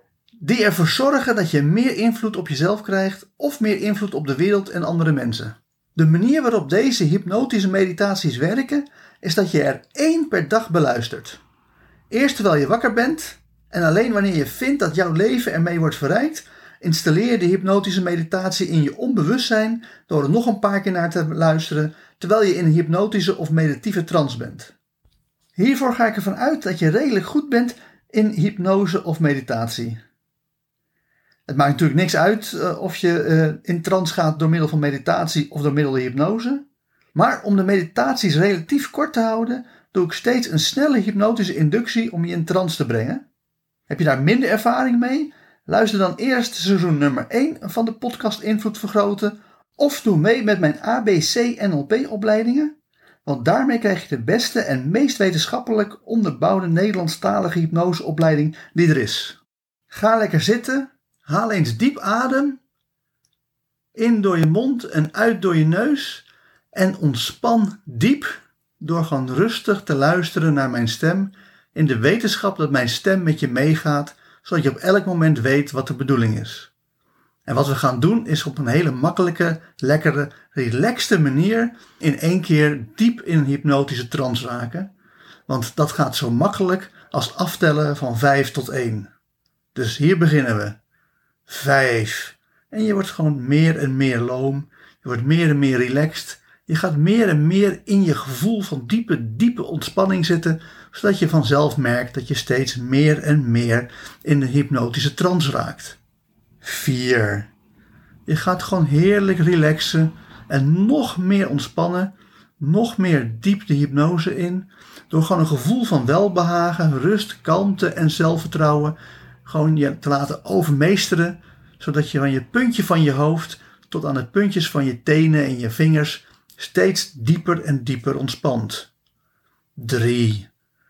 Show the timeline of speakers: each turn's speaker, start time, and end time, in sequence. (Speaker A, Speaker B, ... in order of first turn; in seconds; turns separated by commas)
Speaker A: 0.4-11.4, Speaker A: 12.1-24.7, Speaker A: 25.6-30.0, Speaker A: 31.5-43.2, Speaker A: 43.9-52.7, Speaker A: 53.2-59.4, Speaker A: 59.9-62.6, Speaker A: 64.0-76.7, Speaker A: 77.5-84.9, Speaker A: 85.5-89.1, Speaker A: 89.8-90.8, Speaker A: 91.5-106.0, Speaker A: 106.6-107.5, Speaker A: 108.3-128.9, Speaker A: 129.8-130.5